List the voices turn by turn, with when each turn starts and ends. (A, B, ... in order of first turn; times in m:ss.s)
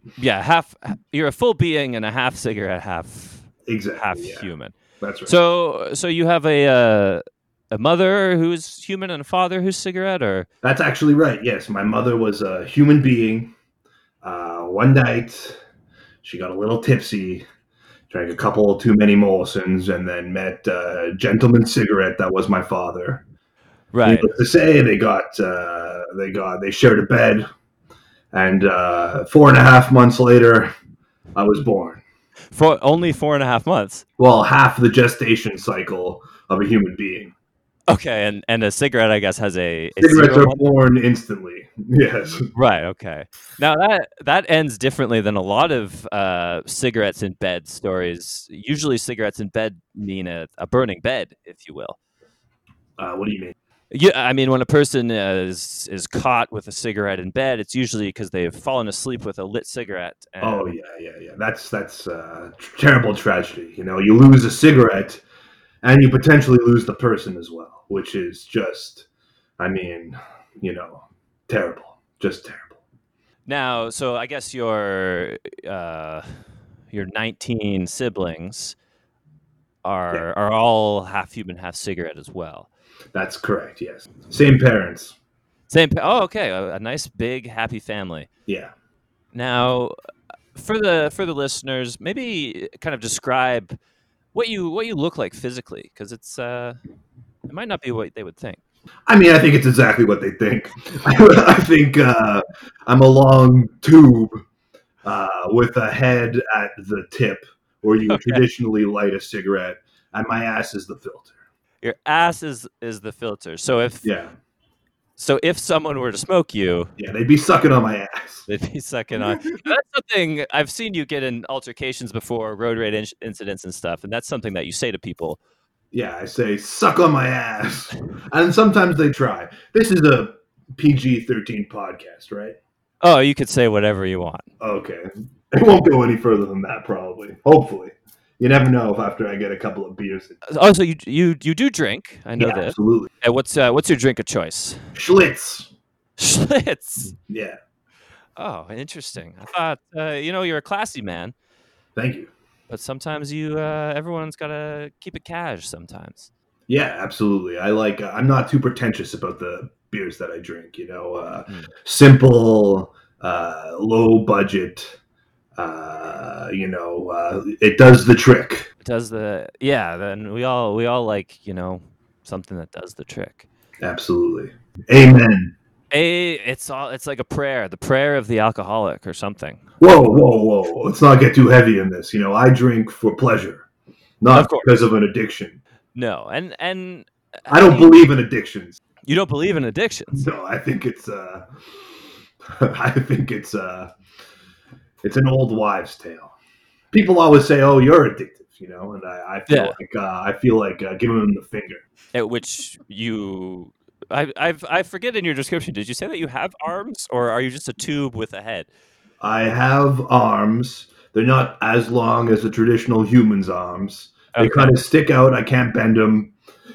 0:00.2-0:04.7 A
0:03.6-0:05.4 B
0:05.2-0:10.5 A
0:10.6-0:13.5 B
0:14.2-0:15.6 B
0:16.2-0:17.4 B
0:18.1-0:23.2 B
0:23.9-0:24.3 A
0:24.0-0:27.5 B
0:28.3-0:30.7 B
0:31.3-0:32.0 B
0:32.5-0:34.0 A
0:34.2-0:37.3 B
0:37.9-0:40.6 A
0:40.0-0:42.5 B
0:42.5-0:52.0 A
0:53.0-0:53.5 B
0:53.9-1:00.7 A
1:00.4-1:05.2 B
1:05.8-1:09.0 B
1:09.6-1:12.8 B
1:13.4-1:16.3 A
1:16.9-1:18.8 A
1:19.8-1:22.7 A
1:23.1-1:25.1 B
1:25.7-1:28.3 A
1:28.5-1:28.7 B
1:29.3-1:29.9 A
1:30.5-1:33.8 A
1:34.3-1:36.8 A
1:37.5-1:38.6 A
1:39.1-1:44.4 B
1:45.0-1:51.3 B
1:48.1-1:48.4 A
1:51.8-1:54.1 A
1:54.0-1:54.3 B
1:55.2-1:56.9 A
1:57.0-1:58.5 B
1:58.5-2:05.4 A
2:05.9-2:12.6 B
2:13.0-2:14.4 A
2:14.6-2:20.4 B
2:20.5-2:24.8 A
2:22.4-2:23.1 B
2:24.9-2:25.7 B
2:26.2-2:27.1 A
2:27.2-2:27.6 B
2:28.4-2:31.3 A
2:32.0-2:32.3 B
2:32.7-2:36.3 A
2:36.7-2:45.0 B
2:45.6-2:48.7 B
2:48.8-2:53.4 A
2:53.8-2:55.5 B
2:55.9-2:59.9 A
2:59.8-3:03.6 B
3:04.2-3:05.6 B
3:04.3-3:04.7 A
3:05.9-3:08.0 A
3:07.5-3:08.8 B
3:09.0-3:10.3 A
3:10.1-3:11.5 B
3:12.6-3:13.9 B
3:15.0-3:16.3 B
3:16.9-3:21.8 B
3:19.5-3:19.8 A
3:22.1-3:28.7 A
3:29.2-3:36.3 B
3:34.3-3:34.8 A